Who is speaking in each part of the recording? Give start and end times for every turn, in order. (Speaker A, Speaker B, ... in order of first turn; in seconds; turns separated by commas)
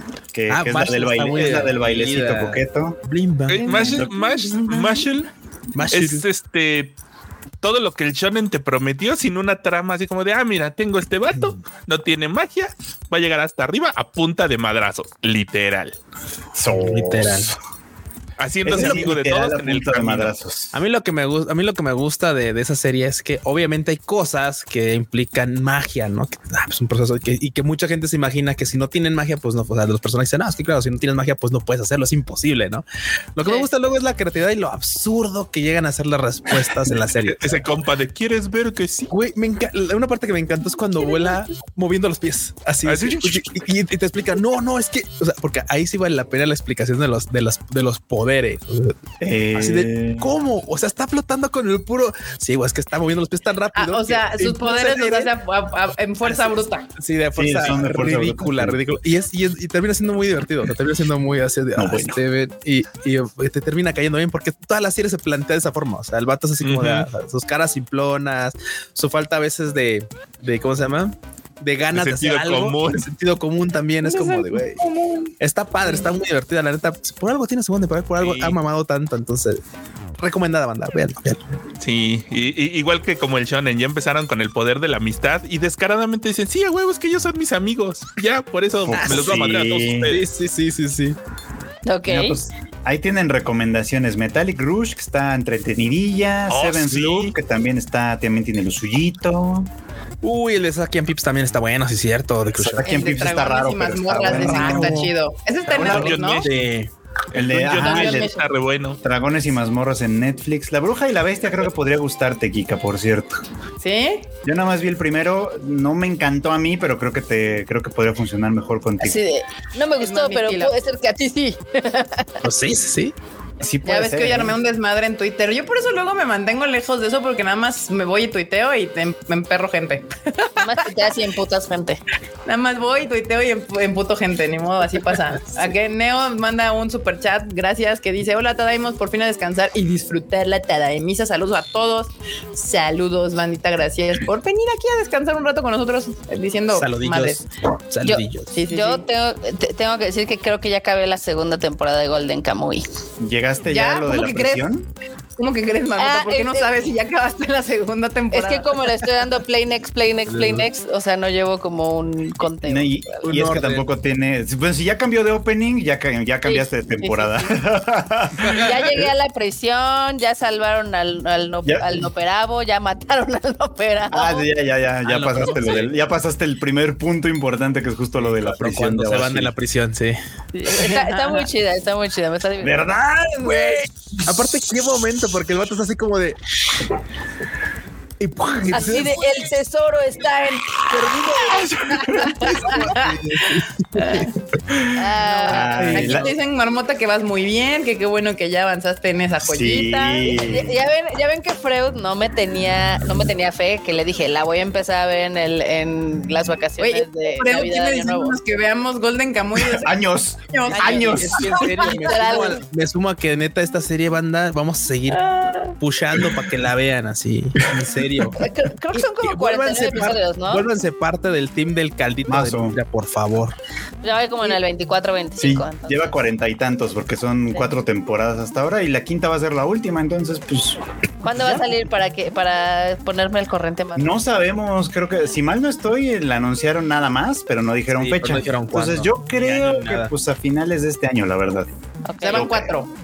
Speaker A: 0.3-3.0, Speaker B: 0.5-3.8, Speaker C: 3.5-5.3, Speaker D: 3.6-5.1, Speaker A: 3.8-4.1, Speaker B: 5.7-6.2, Speaker C: 5.9-7.0, Speaker C: 7.6-16.0, Speaker A: 16.5-17.6, Speaker B: 16.7-17.6, Speaker C: 18.4-20.3, Speaker A: 18.6-20.7, Speaker B: 18.7-19.1, Speaker B: 20.7-32.8, Speaker B: 33.4-37.6, Speaker C: 37.3-39.1, Speaker B: 39.1-49.0, Speaker C: 42.9-43.5, Speaker A: 49.2-50.4, Speaker B: 49.5-55.3, Speaker D: 53.8-56.9, Speaker B: 56.2-74.8, Speaker A: 57.4-58.8, Speaker A: 61.8-62.2, Speaker C: 66.6-67.1, Speaker C: 71.9-73.0, Speaker D: 74.0-75.3, Speaker B: 75.4-79.6, Speaker C: 78.2-78.6, Speaker B: 80.2-81.4, Speaker C: 81.8-90.2, Speaker A: 88.9-90.2, Speaker B: 89.0-89.3, Speaker B: 90.1-91.2, Speaker E: 91.8-92.4, Speaker A: 92.1-99.7, Speaker C: 96.5-97.3, Speaker B: 100.2-103.1, Speaker A: 102.6-105.0, Speaker D: 102.8-106.5, Speaker B: 104.2-105.1, Speaker A: 105.7-106.2, Speaker C: 105.7-106.5, Speaker B: 105.9-106.9, Speaker C: 107.3-109.0, Speaker A: 107.3-108.4, Speaker D: 107.7-108.4, Speaker A: 109.0-113.4, Speaker D: 113.8-114.3, Speaker A: 114.4-119.2, Speaker E: 119.0-122.5, Speaker D: 120.0-120.7, Speaker B: 122.4-123.1, Speaker A: 123.6-124.6, Speaker D: 123.8-130.9, Speaker E: 130.6-132.0, Speaker D: 132.5-147.4, Speaker B: 146.7-148.6, Speaker E: 148.0-152.8, Speaker D: 148.5-149.1, Speaker A: 153.2-154.9, Speaker D: 153.7-154.7, Speaker D: 155.4-158.9, Speaker E: 156.0-156.7, Speaker E: 158.3-163.2, Speaker B: 160.3-160.7, Speaker A: 162.6-169.0, Speaker B: 163.2-163.9, Speaker E: 166.4-167.5, Speaker B: 168.4-168.8, Speaker E: 168.5-174.5, Speaker A: 171.7-172.1, Speaker A: 174.1-179.5, Speaker B: 175.1-175.9, Speaker B: 178.2-180.2, Speaker E: 180.5-182.9, Speaker D: 180.7-181.5, Speaker A: 182.6-183.9, Speaker D: 183.4-183.8, Speaker B: 184.2-186.4, Speaker B: 188.2-189.2, Speaker E: 188.7-191.6, Speaker A: 191.0-192.7, Speaker D: 192.1-193.1, Speaker B: 192.1-194.3, Speaker D: 194.0-194.3, Speaker A: 194.7-196.3, Speaker E: 195.0-196.3, Speaker D: 195.2-200.4, Speaker B: 195.7-196.3, Speaker A: 199.4-200.8, Speaker E: 200.3-208.4, Speaker D: 206.8-210.0, Speaker A: 209.6-211.7, Speaker D: 210.5-212.6, Speaker E: 210.7-212.6, Speaker B: 210.8-218.4, Speaker D: 215.1-215.8, Speaker A: 216.1-216.4, Speaker A: 217.8-218.2, Speaker E: 218.3-220.7, Speaker B: 218.9-223.6, Speaker A: 222.3-222.8, Speaker E: 224.0-226.1, Speaker A: 225.4-231.7, Speaker E: 231.2-234.2, Speaker A: 234.0-241.7, Speaker B: 238.0-240.1, Speaker E: 242.1-242.5, Speaker D: 242.2-242.9, Speaker A: 242.2-242.7